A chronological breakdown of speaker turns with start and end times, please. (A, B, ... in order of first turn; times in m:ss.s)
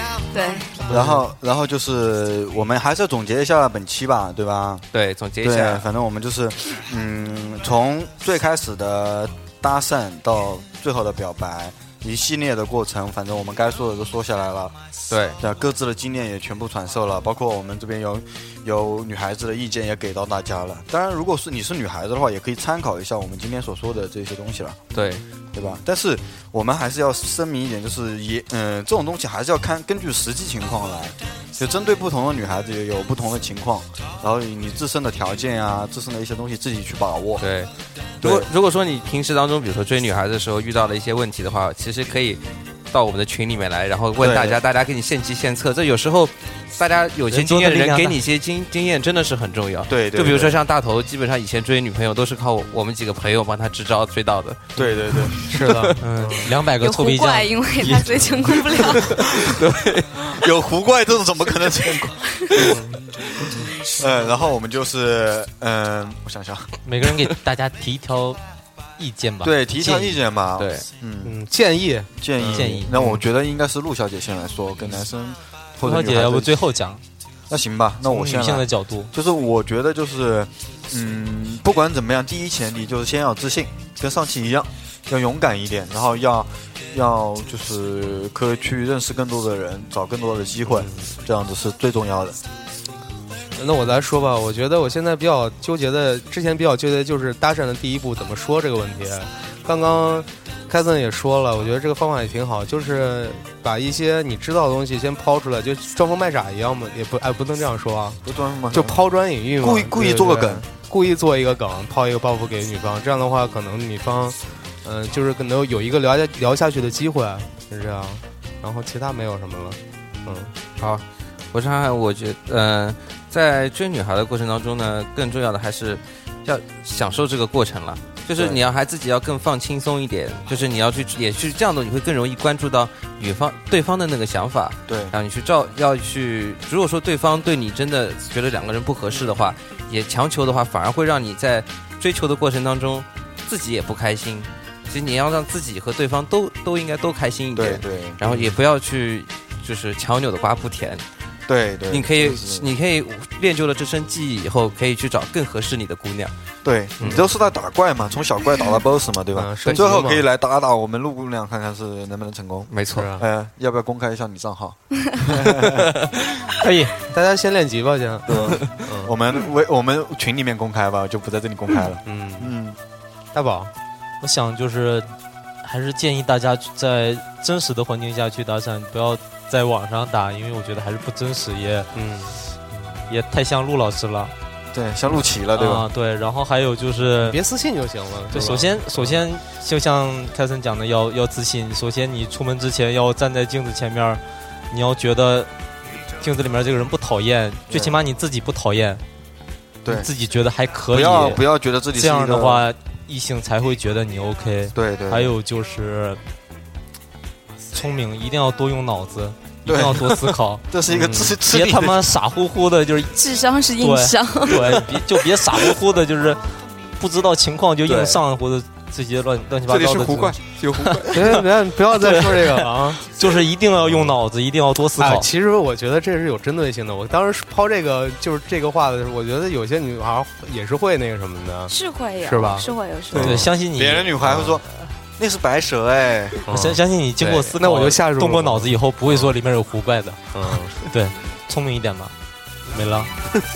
0:00.3-0:00.8 A
0:00.8-0:01.3 B
0:00.9-0:04.8 C
0:04.9-0:05.9 D
0:05.4-0:14.8 C
0:15.1-0:15.4 D
0:15.4-0:24.8 C
0:24.9-0:25.2 D
0:25.5-0:37.4 C
0:37.4-0:54.7 D
0:38.2-0:38.5 C
0:44.2-0:44.6 C
0:47.3-0:48.2 B
0:49.9-0:50.6 C
0:54.8-0:55.4 C
0:54.8-0:56.5 E
0:55.7-0:56.5 D
0:56.0-0:58.6 B
0:56.8-0:59.3 A
0:59.2-1:00.2 D
1:00.2-1:02.8 C
1:02.7-1:03.0 E
1:03.4-1:06.7 C
1:06.8-1:08.4 B
1:09.0-1:10.2 B
1:09.4-1:11.4 C
1:10.6-1:10.9 D
1:11.2-1:12.9 E
1:12.2-1:16.6 C
1:12.6-1:12.9 B
1:15.8-1:17.0 B
1:17.5-1:32.4 C
1:18.0-1:19.1 B
1:30.7-1:31.1 E
1:33.6-1:48.2 E
1:48.2-1:49.0 C
1:48.7-2:00.5 E
1:49.6-1:50.7 C
2:00.8-2:31.0 D
2:08.4-2:08.6 C
2:14.9-2:15.1 C
2:27.6-2:28.4 C
2:31.5-2:32.7 C
2:31.9-2:36.3 D
2:36.6-2:45.9 C
2:37.0-2:37.2 E
2:39.4-2:40.2 E
2:42.7-2:43.1 D
2:43.0-2:43.2 E
2:46.5-2:47.1 B
2:47.1-2:49.1 E
2:48.3-2:52.8 C
2:52.0-2:52.5 E
2:53.3-2:53.7 E
2:54.2-2:55.1 B
2:55.6-3:01.9 B
3:01.9-3:02.4 E
3:03.1-3:04.3 B
3:04.7-3:05.8 C
3:05.5-3:07.4 B
3:07.2-3:09.2 E
3:08.3-3:15.5 B
3:16.2-3:19.0 B
3:17.7-3:18.0 C
3:19.9-3:21.4 B
3:20.9-3:22.7 C
3:22.0-3:26.2 B
3:24.8-3:25.3 C
3:27.7-3:33.2 B
3:29.6-3:32.0 C
3:30.9-3:31.4 E
3:33.1-3:34.8 A
3:33.8-3:36.4 B
3:37.0-3:41.4 B
3:37.9-3:38.2 D
3:39.8-3:40.6 D
3:39.8-3:41.0 C
3:41.1-3:43.0 E
3:41.9-3:45.3 B
3:45.0-3:52.7 E
3:51.7-3:53.4 A
3:53.1-3:54.6 C
3:53.2-3:54.2 B
3:55.2-3:56.4 C
3:56.5-3:56.8 E
3:56.5-4:02.1 B
3:57.2-3:57.6 D
3:57.6-3:58.7 E
4:00.3-4:00.8 E
4:02.7-4:03.1 B